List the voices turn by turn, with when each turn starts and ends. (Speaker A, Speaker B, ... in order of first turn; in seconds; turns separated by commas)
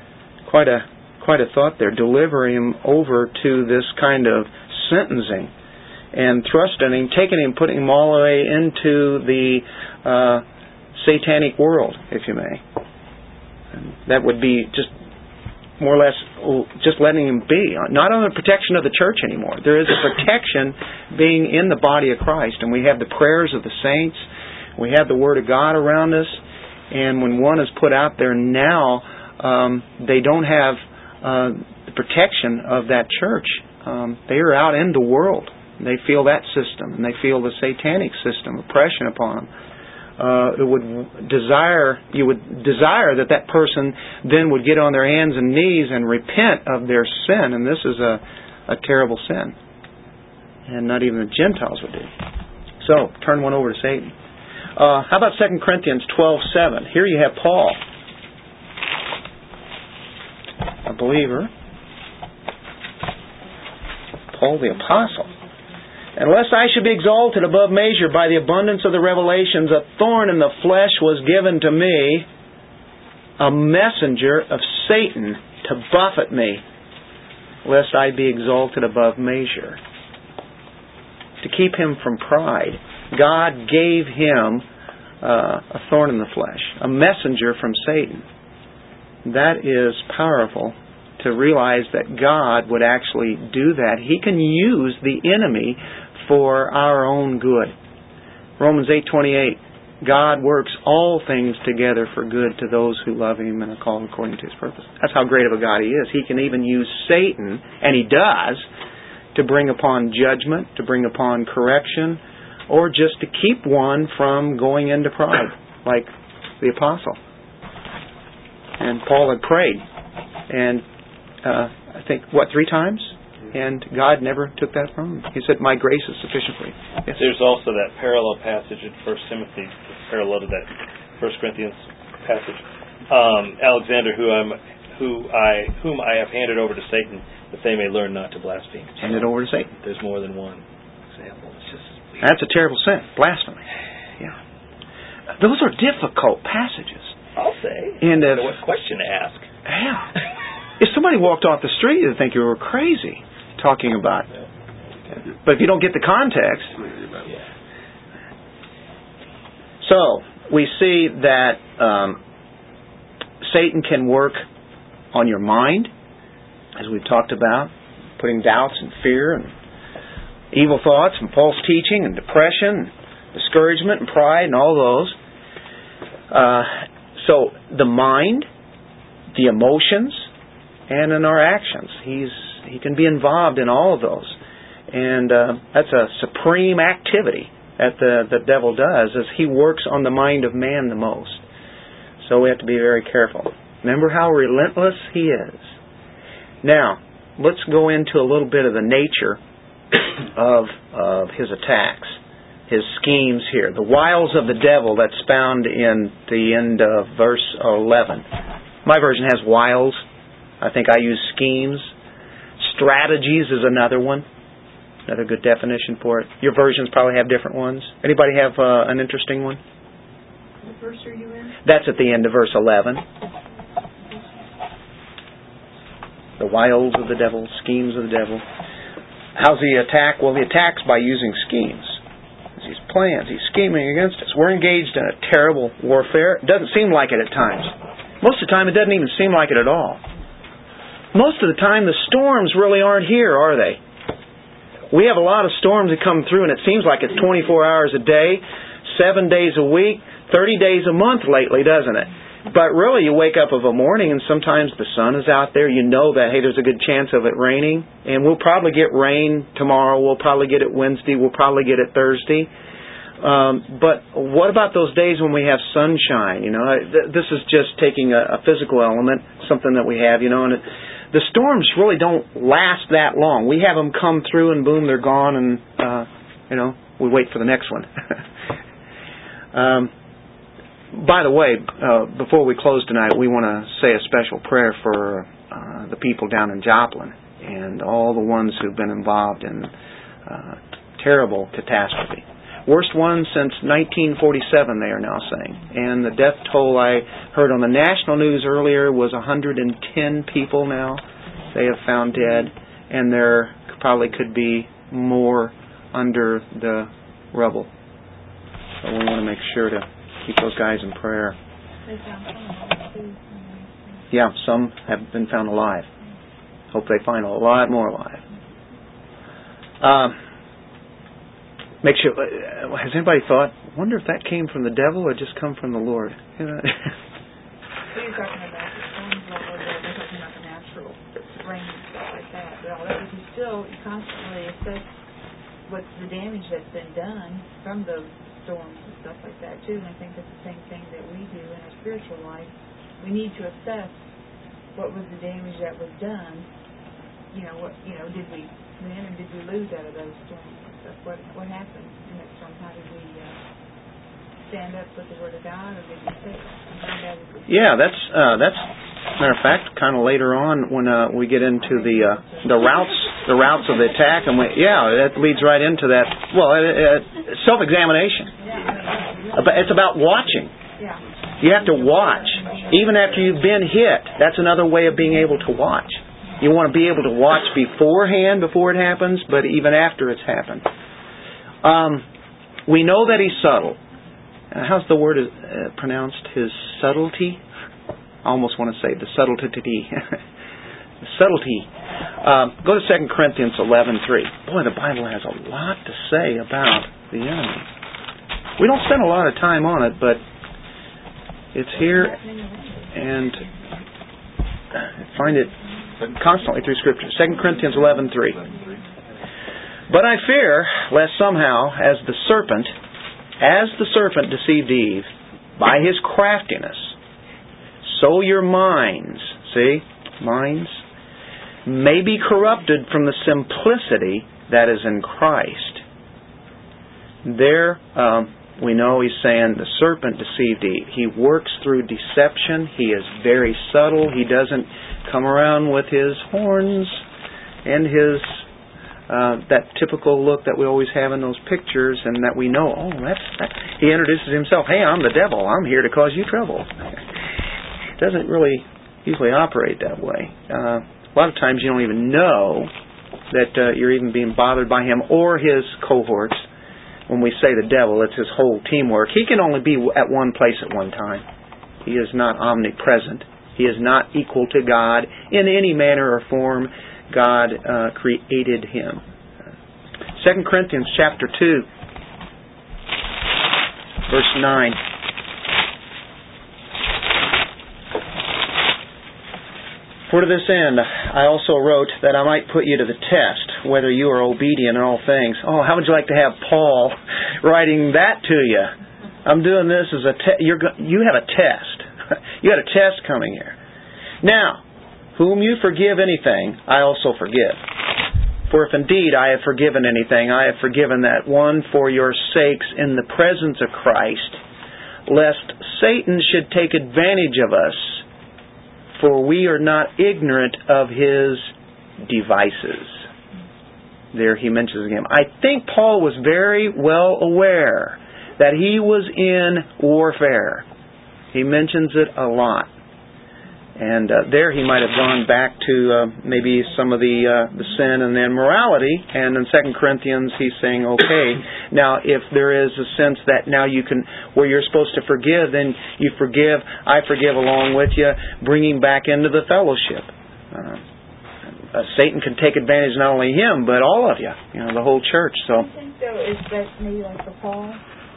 Speaker A: 0.5-5.5, Speaker A: 6.1-10.4, Speaker A: 10.9-12.6, Speaker A: 13.7-14.9, Speaker A: 15.8-39.5, Speaker A: 40.2-49.5, Speaker A: 50.7-52.1, Speaker A: 52.8-54.1, Speaker A: 54.8-57.8, Speaker A: 60.9-61.5, Speaker A: 64.3-65.3, Speaker A: 66.2-72.3, Speaker A: 73.4-76.6, Speaker A: 77.7-79.8, Speaker A: 81.4-84.7, Speaker A: 85.2-88.3, Speaker A: 89.2-97.7, Speaker A: 98.6-108.7, Speaker A: 109.3-116.1, Speaker A: 116.6-117.2, Speaker A: 118.8-119.8, Speaker A: 120.5-120.8, Speaker A: 121.4-127.2, Speaker B: 127.1-139.2, Speaker A: 139.0-139.7, Speaker B: 139.8-142.2, Speaker A: 142.2-143.6, Speaker A: 145.4-147.2, Speaker B: 147.4-149.5, Speaker A: 148.0-148.5, Speaker A: 149.7-150.1, Speaker A: 150.8-154.3, Speaker A: 155.3-156.9, Speaker A: 159.8-162.2, Speaker A: 163.4-164.4, Speaker A: 165.1-165.9, Speaker A: 166.8-169.5, Speaker A: 170.5-175.2, Speaker A: 176.3-178.5, Speaker A: 179.3-180.3, Speaker A: 180.9-184.4, Speaker A: 184.9-191.4, Speaker A: 192.2-195.8, Speaker A: 196.6-199.4, Speaker A: 200.3-208.3, Speaker A: 208.8-210.0, Speaker A: 210.6-211.9, Speaker A: 212.6-214.2, Speaker A: 215.1-219.6, Speaker C: 220.7-221.5, Speaker A: 221.7-223.0, Speaker A: 226.4-228.4, Speaker A: 229.3-232.0, Speaker A: 232.6-240.0, Speaker A: 241.1-243.8, Speaker A: 244.9-262.5, Speaker A: 263.2-278.2, Speaker A: 279.5-279.9, Speaker A: 280.9-289.7, Speaker A: 290.3-301.0, Speaker A: 301.5-307.7, Speaker A: 308.8-311.4, Speaker C: 311.9-314.0, Speaker A: 314.1-315.9, Speaker A: 316.7-318.2, Speaker A: 319.8-320.2, Speaker A: 321.8-326.8, Speaker C: 327.9-334.9, Speaker C: 335.7-344.0, Speaker C: 344.8-346.5, Speaker C: 347.3-353.4, Speaker C: 354.4-357.7, Speaker A: 357.5-368.3, Speaker C: 361.6-362.6, Speaker C: 368.4-369.7, Speaker A: 369.3-370.5, Speaker C: 370.8-371.1, Speaker A: 371.4-380.7, Speaker C: 371.6-373.0, Speaker A: 381.6-382.1, Speaker A: 382.7-383.8, Speaker A: 384.5-387.4, Speaker A: 388.2-390.2, Speaker A: 391.0-391.7, Speaker A: 392.2-397.7, Speaker A: 398.6-400.2, Speaker A: 401.5-402.2, Speaker C: 401.8-403.6, Speaker A: 402.9-403.4, Speaker A: 404.8-405.5, Speaker A: 406.1-408.5, Speaker C: 408.4-408.8, Speaker A: 409.9-412.7, Speaker A: 413.4-416.9, Speaker A: 417.8-420.8, Speaker A: 421.6-425.8, Speaker A: 427.2-437.0, Speaker A: 437.6-438.5, Speaker A: 439.1-446.8, Speaker A: 448.0-452.7, Speaker A: 453.3-456.4, Speaker A: 457.1-461.2, Speaker A: 461.8-469.0, Speaker A: 470.1-471.7, Speaker A: 474.1-474.8, Speaker A: 480.1-488.7, Speaker A: 489.2-491.9, Speaker A: 492.4-493.6, Speaker A: 494.2-494.6, Speaker A: 495.2-497.6, Speaker A: 498.5-504.4, Speaker A: 505.1-508.0, Speaker A: 509.0-513.0, Speaker A: 514.1-520.7, Speaker A: 521.3-522.7, Speaker A: 523.8-540.8, Speaker A: 541.6-545.7, Speaker C: 545.5-547.8